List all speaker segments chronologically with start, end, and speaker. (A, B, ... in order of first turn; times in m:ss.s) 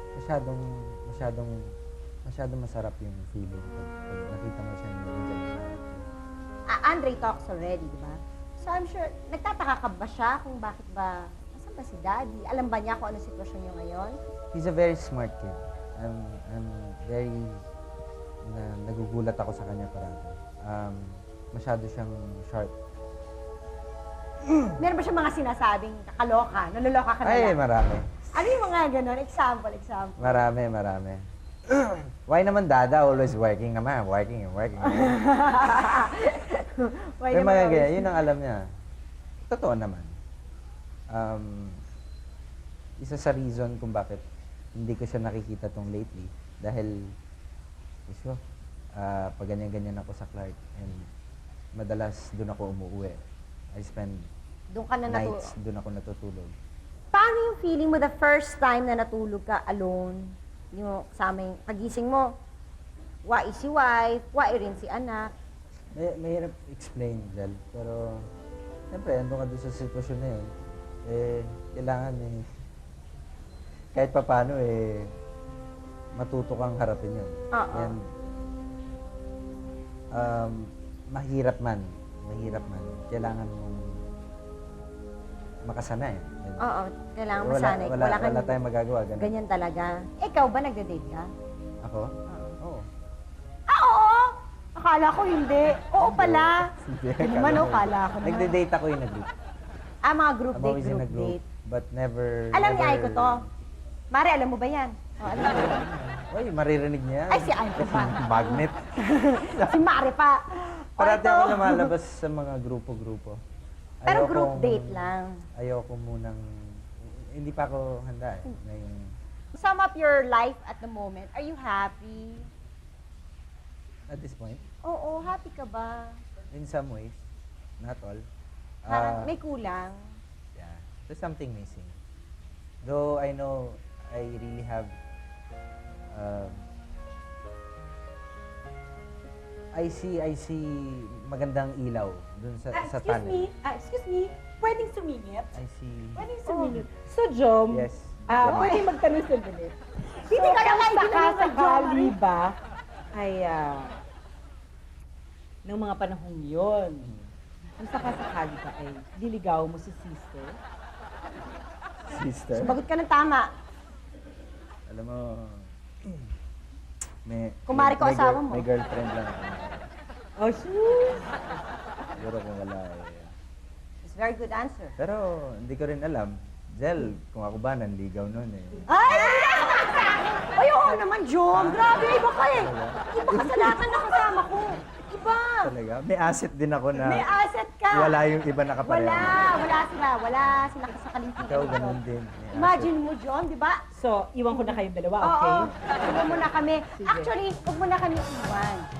0:00.2-0:01.6 A
0:02.2-0:06.0 A
0:06.7-0:14.2 B
0:14.5-0:17.6 A
0:18.5-0:22.7 A
0:24.8-0:27.6 B
0:27.2-0:28.3 A
0:28.3-0:30.4 B
0:30.2-0:35.2 A
0:34.8-0:38.2 B
0:37.3-0:38.6 A
0:39.4-0:40.1 A
0:41.1-0:41.8 A
0:43.0-0:44.2 A
0:44.7-0:46.9 A
0:48.1-0:48.4 A
0:49.0-0:51.0 A
0:51.8-0:53.2 A
0:53.7-0:54.3 A
0:54.7-0:55.5 B
0:55.1-0:56.5 A
0:57.1-1:02.3 B
1:03.2-1:05.3 B
1:05.9-1:08.2 A
1:08.9-1:10.5 A
1:11.0-1:12.4 A
1:13.9-1:15.1 A
1:16.2-1:18.1 A
1:17.5-1:18.0 B
1:20.1-1:24.0 A
1:25.6-1:26.6 A
1:26.6-1:28.5 B
1:27.4-1:29.3 A
1:29.2-1:31.3 B
1:31.8-1:32.8 A
1:32.3-1:32.6 B
1:33.7-1:38.6 B
1:36.0-1:39.3 A
1:40.0-1:41.4 B
1:40.5-1:43.5 A
1:42.5-1:43.4 B
1:44.1-1:45.8 B
1:45.2-1:48.8 A
1:47.3-1:51.9 B
1:49.5-1:49.8 A
1:51.0-1:53.4 A
1:54.0-1:56.4 A
1:54.0-1:55.4 B
1:57.0-1:59.2 A
1:59.5-2:02.5 B
2:04.1-2:04.6 A
2:04.8-2:06.2 B
2:06.5-2:07.1 A
2:07.8-2:08.2 A
2:08.8-2:09.3 A
2:08.9-2:10.0 B
2:10.5-2:11.9 A
2:12.8-2:14.9 A
2:16.1-2:16.6 A
2:19.7-2:23.5 A
2:22.7-2:25.6 C
2:25.5-2:26.3 A
2:26.2-2:32.6 C
2:26.4-2:26.8 B
2:27.7-2:28.8 A
2:28.4-2:28.8 B
2:30.3-2:32.1 B
2:33.1-2:33.9 C
2:35.6-2:37.1 C
2:37.0-2:37.3 A
2:37.8-2:40.6 C
2:42.0-2:42.8 A
2:42.5-2:43.5 B
2:44.9-2:46.2 A
2:47.2-2:49.9 A
2:47.7-2:48.6 B
2:50.4-2:51.6 C
2:52.2-2:53.3 A
2:54.0-2:54.9 B
2:55.0-2:58.8 A
2:58.9-3:05.7 B
3:01.5-3:04.0 A
3:05.6-3:07.3 A
3:06.9-3:08.2 B
3:07.9-3:09.6 A
3:08.8-3:12.0 B
3:10.4-3:10.7 A
3:11.4-3:12.9 A
3:12.5-3:13.8 B
3:13.9-3:15.7 C
3:15.2-3:18.9 B
3:15.5-3:16.1 A
3:16.9-3:17.3 C